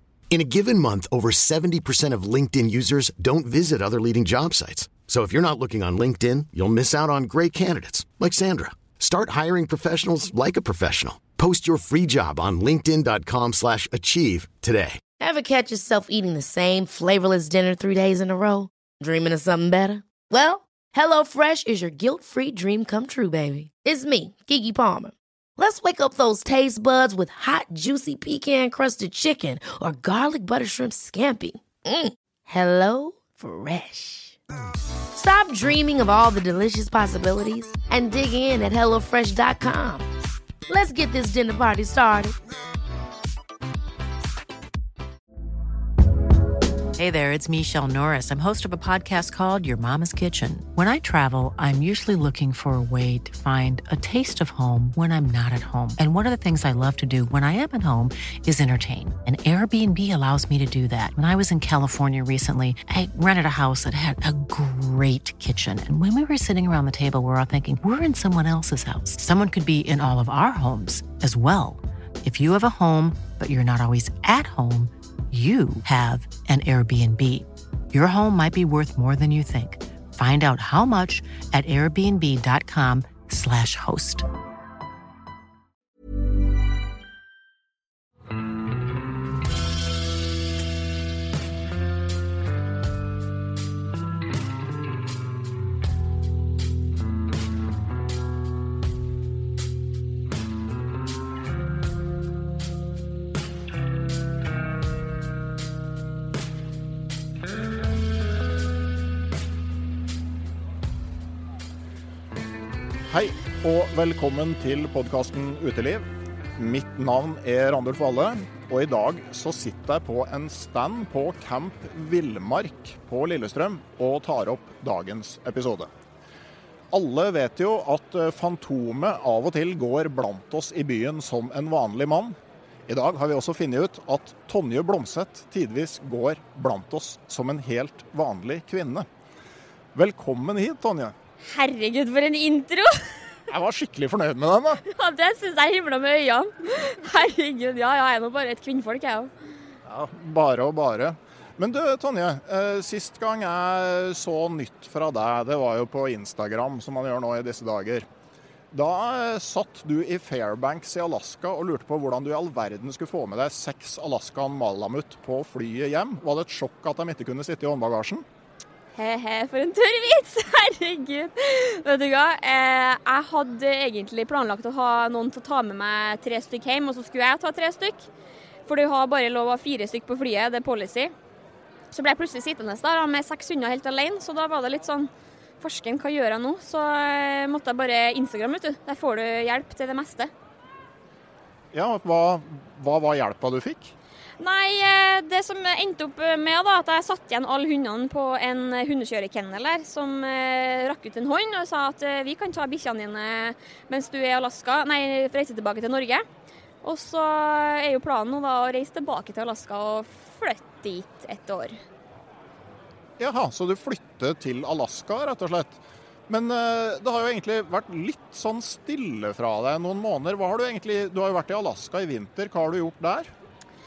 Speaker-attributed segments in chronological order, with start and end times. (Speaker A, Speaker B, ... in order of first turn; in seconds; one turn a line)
Speaker A: 0.3-15.0
Speaker B: 15.2-34.4
Speaker B: 35.1-40.0
Speaker B: 40.7-42.4
Speaker C: 47.0-84.3
Speaker D: 113.1-125.9
Speaker D: 126.9-132.3
Speaker D: 132.9-139.1
Speaker D: 139.9-141.1
Speaker E: 141.4-143.2
Speaker D: 143.5-144.8
Speaker E: 144.8-149.3
Speaker D: 149.8-158.1
Speaker D: 158.7-168.2
Speaker E: 168.9-178.1
Speaker E: 178.7-181.1
Speaker E: 181.9-190.3
Speaker D: 191.7-193.9
Speaker E: 194.4-206.2
Speaker E: 206.8-211.8
Speaker D: 213.2-223.3